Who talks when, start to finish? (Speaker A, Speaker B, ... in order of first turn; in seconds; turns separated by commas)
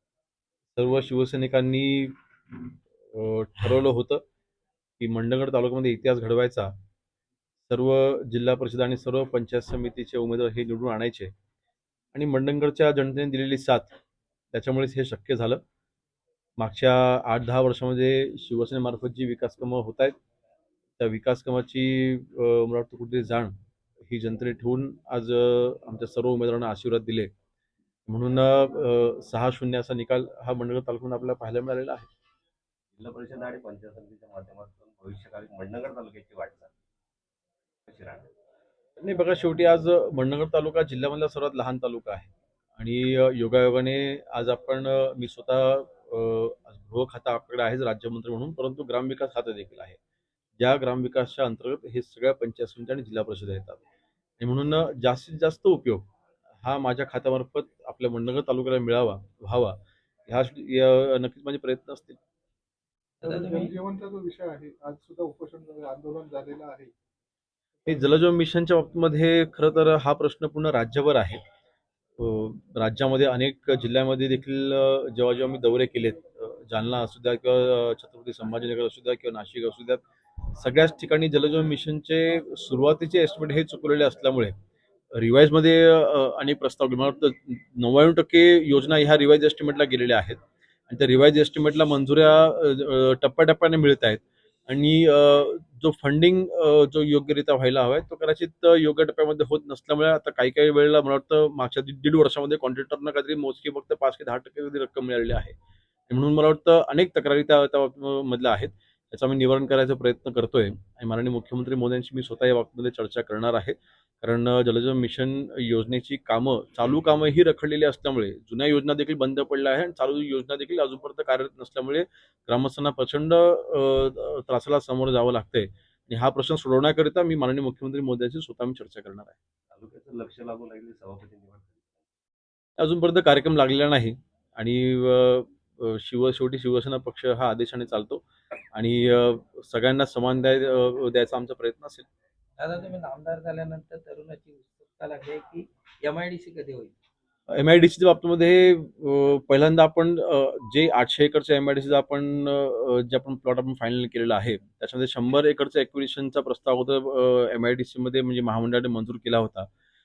Speaker A: 0.8-2.6, Speaker A: 3.1-4.2, Speaker A: 5.0-6.7, Speaker A: 7.7-11.3, Speaker A: 12.1-13.9, Speaker A: 14.5-15.6, Speaker A: 16.6-20.1, Speaker A: 21.0-23.5, Speaker A: 24.1-27.3, Speaker A: 28.1-32.1, Speaker B: 33.0-36.7, Speaker B: 37.9-38.3, Speaker A: 39.0-50.0, Speaker A: 50.6-53.8, Speaker A: 54.4-56.1, Speaker A: 56.6-59.8, Speaker A: 60.3-62.2, Speaker C: 63.2-63.7, Speaker D: 63.2-66.9, Speaker A: 67.8-71.4, Speaker A: 72.2-80.0, Speaker A: 80.5-84.5, Speaker A: 85.1-90.4, Speaker A: 90.9-105.5, Speaker A: 106.1-129.4, Speaker B: 129.7-132.1, Speaker A: 132.8-138.2, Speaker A: 138.7-142.1, Speaker C: 142.6-146.9, Speaker A: 147.5-159.7